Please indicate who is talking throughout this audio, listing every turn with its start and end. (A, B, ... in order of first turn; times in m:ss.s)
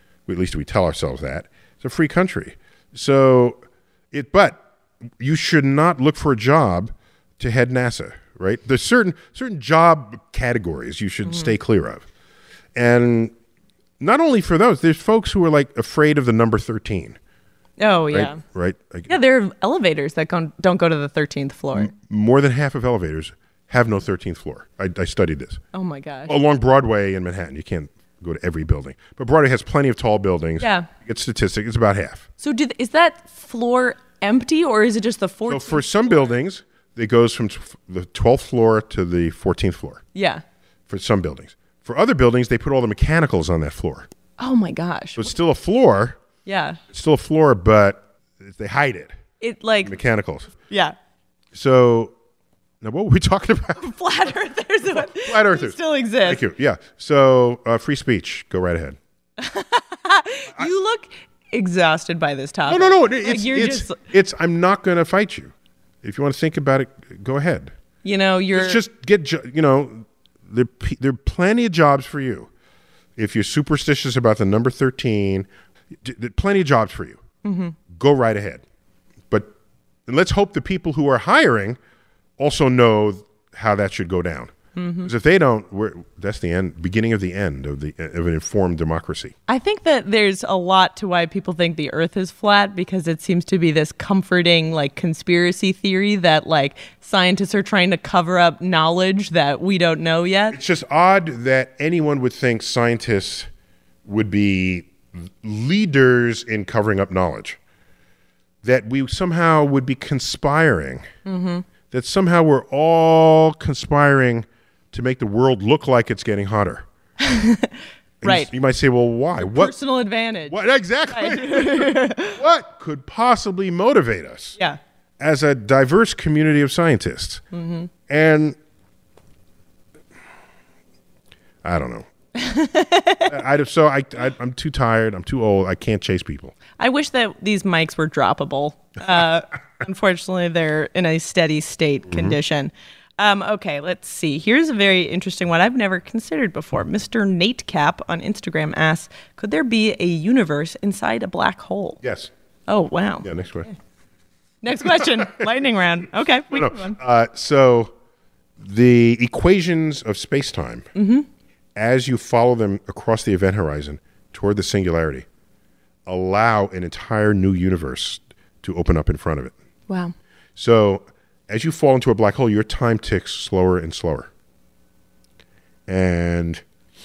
0:00.3-0:03.6 A
0:04.1-0:04.6 A
0:05.2-0:12.1 A
0:11.3-0:11.5 B
0:12.8-0:13.3 A
0:14.0-0:17.2 A
0:17.8-0:18.4 B
0:18.1-0:19.2 A
0:19.1-0:21.9 B
0:21.7-0:25.6 A
0:25.7-0:26.4 B
0:26.3-0:32.3 A
0:30.6-0:30.9 B
0:32.4-0:36.2 B
0:35.5-0:40.0 A
0:40.2-0:40.4 B
0:40.9-0:44.1 A
0:44.4-0:45.3 B
0:45.2-0:46.2 A
0:46.4-0:46.8 B
0:46.9-0:49.2 A
0:49.4-0:49.9 B
0:49.8-0:50.5 A
0:50.7-0:51.0 B
0:51.6-0:52.1 A
0:52.8-0:53.8 A
0:53.8-0:56.4 B
0:55.0-0:59.0 A
0:59.4-1:04.0 B
1:02.7-1:05.5 A
1:06.0-1:07.7 A
1:08.0-1:08.8 B
1:08.5-1:12.5 A
1:13.2-1:15.5 A
1:16.0-1:17.2 A
1:17.4-1:17.8 B
1:17.9-1:18.6 A
1:20.1-1:21.8 A
1:22.4-1:24.5 A
1:24.8-1:25.1 B
1:25.0-1:29.4 A
1:29.5-1:40.6 B
1:40.5-1:43.5 A
1:44.1-1:47.6 A
1:48.6-1:51.1 A
1:51.3-1:51.6 B
1:51.9-1:56.9 A
1:57.2-1:58.5 B
1:58.2-1:59.7 A
1:59.4-2:00.6 B
2:00.5-2:04.6 A
2:01.1-2:02.4 B
2:05.2-2:07.4 A
2:07.5-2:07.9 B
2:08.1-2:08.6 A
2:11.6-2:12.1 A
2:12.4-2:13.4 B
2:13.3-2:16.5 A
2:16.8-2:32.0 B
2:32.0-2:32.3 A
2:32.7-2:33.3 B
2:33.2-2:33.7 A
2:34.6-2:37.0 B
2:36.5-2:37.9 A
2:38.6-2:40.9 A
2:41.0-2:41.3 B
2:41.8-2:45.2 A
2:46.1-2:49.5 A
2:49.9-2:50.1 B
2:50.6-2:54.3 A
2:55.9-2:56.6 A